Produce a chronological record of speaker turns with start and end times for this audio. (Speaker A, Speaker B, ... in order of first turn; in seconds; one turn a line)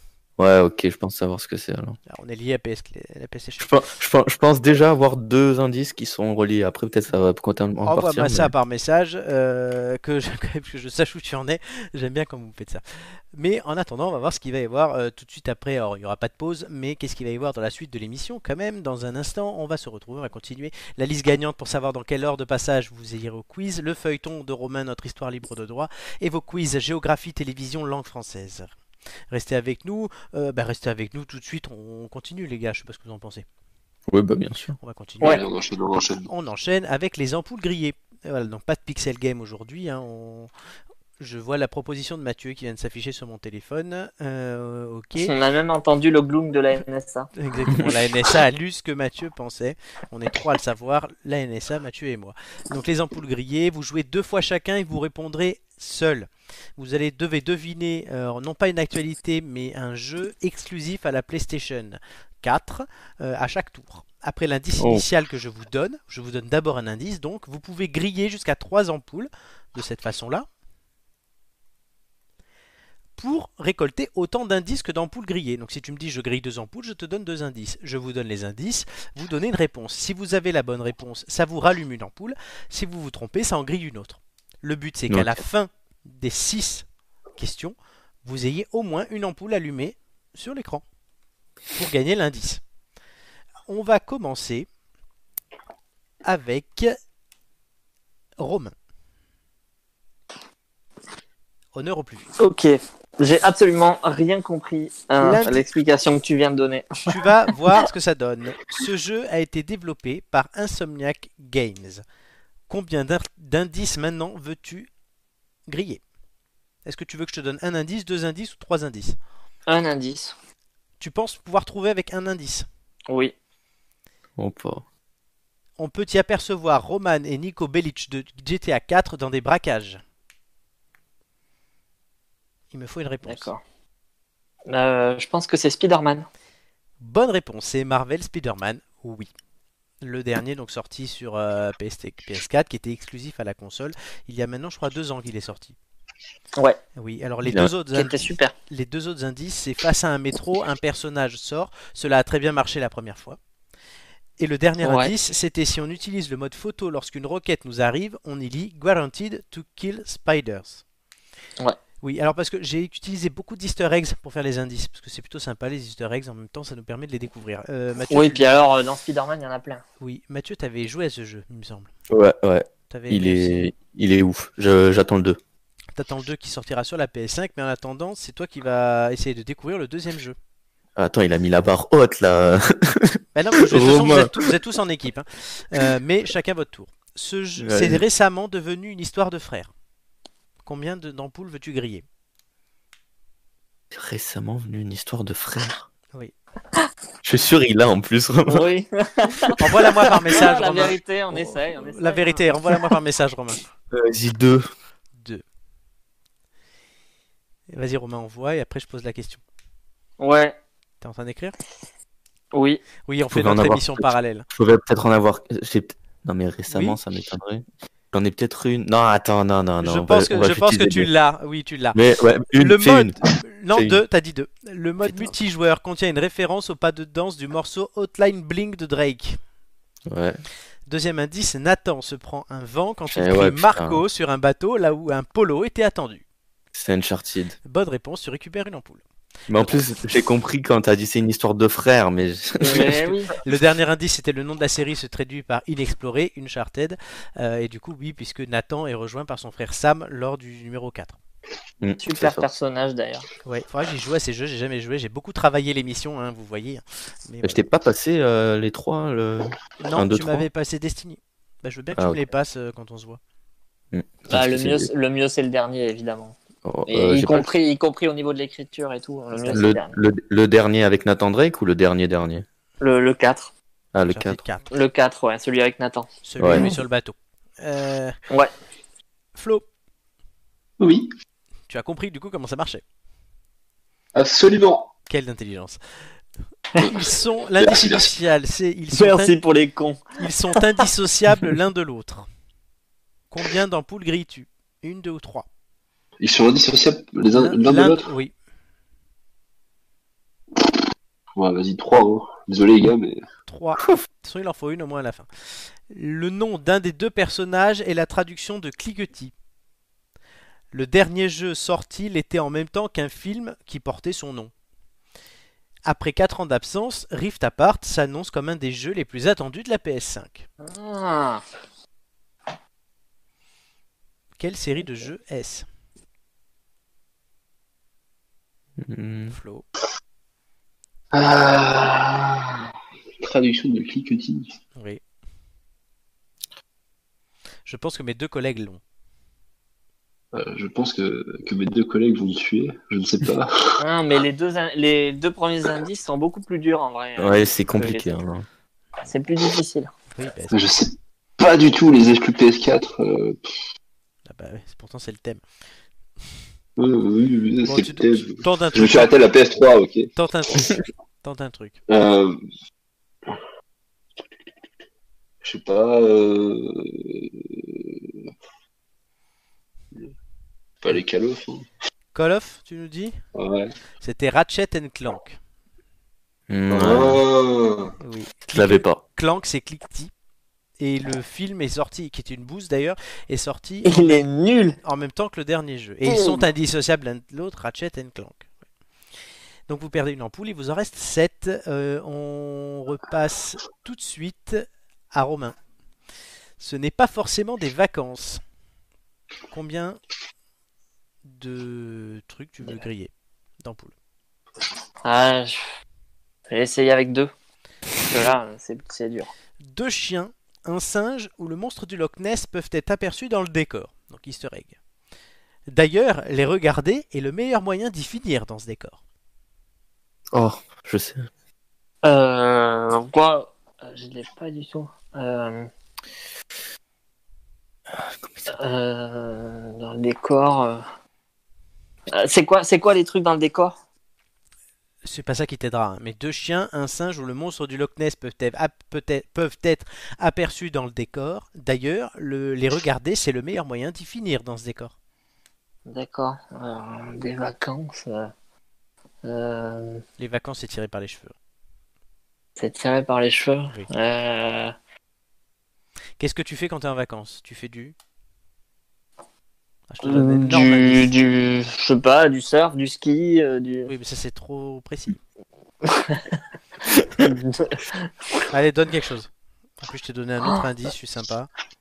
Speaker A: 0.4-2.0
Speaker B: 2.1-3.7
Speaker A: 3.6-8.5
Speaker B: 7.8-12.8
Speaker B: 13.3-28.7
Speaker B: 29.3-33.5
Speaker A: 34.1-34.8
Speaker B: 34.8-35.4
Speaker C: 35.2-36.3
Speaker B: 36.3-40.5
Speaker B: 41.2-45.3
Speaker D: 45.2-47.3
Speaker B: 47.4-70.5
Speaker A: 64.8-65.0
Speaker B: 73.2-86.9
Speaker A: 85.1-85.4
Speaker B: 87.4-90.8
Speaker B: 91.8-92.6
Speaker B: 93.7-94.7
Speaker B: 96.2-97.0
Speaker B: 98.4-98.7
Speaker B: 101.7-102.3
Speaker D: 102.4-107.0
Speaker B: 105.2-105.6
Speaker B: 107.1-112.0
Speaker B: 112.7-114.9
Speaker B: 115.7-116.0
Speaker B: 116.8-119.2
Speaker D: 119.7-120.3
Speaker B: 121.0-122.7
Speaker D: 123.1-123.3
Speaker A: 124.4-124.8
Speaker B: 125.8-130.0
Speaker B: 132.7-133.5
Speaker D: 133.2-133.6
Speaker D: 134.7-136.3
Speaker B: 137.0-139.3
Speaker B: 140.0-145.8
Speaker B: 147.0-153.4
Speaker A: 147.4-147.7
Speaker D: 147.9-148.5
Speaker B: 154.4-160.8
Speaker D: 154.8-155.1
Speaker B: 162.0-168.5
Speaker D: 168.1-169.8
Speaker B: 170.0-171.9
Speaker A: 172.1-175.4
Speaker B: 172.9-173.6
Speaker B: 175.9-180.4
Speaker A: 181.0-184.5
Speaker B: 183.3-189.7
Speaker A: 187.6-188.0
Speaker B: 190.6-192.1
Speaker A: 193.9-195.9
Speaker A: 197.2-198.7
Speaker D: 198.5-202.4
Speaker B: 199.6-203.6
Speaker A: 203.9-204.7
Speaker B: 205.1-205.4
Speaker B: 207.7-209.4
Speaker D: 210.2-210.6
Speaker B: 211.0-211.6
Speaker D: 212.5-212.8
Speaker B: 213.1-214.4
Speaker A: 213.3-214.0
Speaker A: 214.5-221.1
Speaker B: 216.7-217.0
Speaker B: 219.8-222.0
Speaker A: 221.9-223.2
Speaker B: 222.6-229.4
Speaker A: 223.7-224.0
Speaker A: 225.1-225.3
Speaker A: 230.1-230.4
Speaker B: 230.9-236.2
Speaker A: 233.1-234.0
Speaker A: 236.7-237.6
Speaker B: 237.7-239.8
Speaker A: 239.5-243.1
Speaker D: 242.6-243.3
Speaker B: 243.4-251.2
Speaker A: 251.8-252.5
Speaker D: 252.0-253.3
Speaker B: 253.4-257.6
Speaker A: 257.4-260.5
Speaker B: 259.8-263.2
Speaker A: 261.9-262.2
Speaker A: 263.9-264.9
Speaker D: 264.3-266.4
Speaker A: 266.6-267.5
Speaker D: 266.9-270.0
Speaker A: 269.5-272.4
Speaker D: 272.8-273.5
Speaker A: 273.9-274.4
Speaker B: 274.1-274.7
Speaker D: 274.7-276.7
Speaker B: 276.2-278.2
Speaker A: 276.4-276.7
Speaker B: 279.4-279.6
Speaker C: 280.8-281.1
Speaker B: 281.7-282.8
Speaker C: 284.1-284.9
Speaker B: 285.1-285.8
Speaker C: 286.8-288.1
Speaker B: 286.8-289.4
Speaker D: 288.9-290.8
Speaker B: 290.2-292.3
Speaker B: 293.3-295.5
Speaker C: 296.2-298.1
Speaker B: 297.3-298.3
Speaker C: 301.4-303.2
Speaker B: 303.5-305.3
Speaker B: 305.9-309.3
Speaker B: 310.7-314.5
Speaker B: 315.9-320.5
Speaker D: 320.6-321.4
Speaker B: 324.4-325.7
Speaker A: 328.8-329.4
Speaker B: 329.3-329.6
Speaker C: 331.1-332.7
Speaker C: 333.2-334.5
Speaker B: 334.8-335.0
Speaker B: 337.7-338.8
Speaker C: 340.3-343.8
Speaker D: 343.8-348.2
Speaker A: 347.2-348.4
Speaker D: 349.1-349.9
Speaker B: 350.1-350.6
Speaker C: 350.5-353.6
Speaker B: 354.3-355.4
Speaker C: 356.8-360.1
Speaker B: 357.6-359.1
Speaker B: 360.2-361.8
Speaker C: 361.9-362.4
Speaker C: 365.4-368.1
Speaker C: 370.8-371.7
Speaker B: 372.1-373.2
Speaker C: 373.4-373.7
Speaker B: 374.0-375.4
Speaker A: 376.5-377.2
Speaker C: 376.7-377.9
Speaker B: 378.0-380.1
Speaker A: 378.5-379.0
Speaker B: 380.8-384.2
Speaker D: 383.8-384.8
Speaker B: 384.8-388.5
Speaker D: 386.1-386.4
Speaker B: 389.7-395.6
Speaker B: 396.6-398.4
Speaker B: 399.5-400.0
Speaker B: 401.2-403.9
Speaker D: 405.1-405.6
Speaker D: 406.5-407.3
Speaker D: 408.0-409.3
Speaker B: 409.6-414.8
Speaker B: 415.7-419.0
Speaker A: 420.3-421.2
Speaker D: 422.0-425.7
Speaker A: 428.0-428.5
Speaker D: 428.5-430.9
Speaker D: 432.1-433.8
Speaker B: 435.0-444.9
Speaker D: 445.9-448.3
Speaker D: 449.2-450.0
Speaker B: 450.2-451.3
Speaker D: 452.6-454.7
Speaker B: 456.2-457.9
Speaker B: 459.9-461.1
Speaker D: 460.0-463.9
Speaker B: 463.9-465.2
Speaker D: 465.8-466.4
Speaker D: 467.1-468.1
Speaker B: 468.5-471.5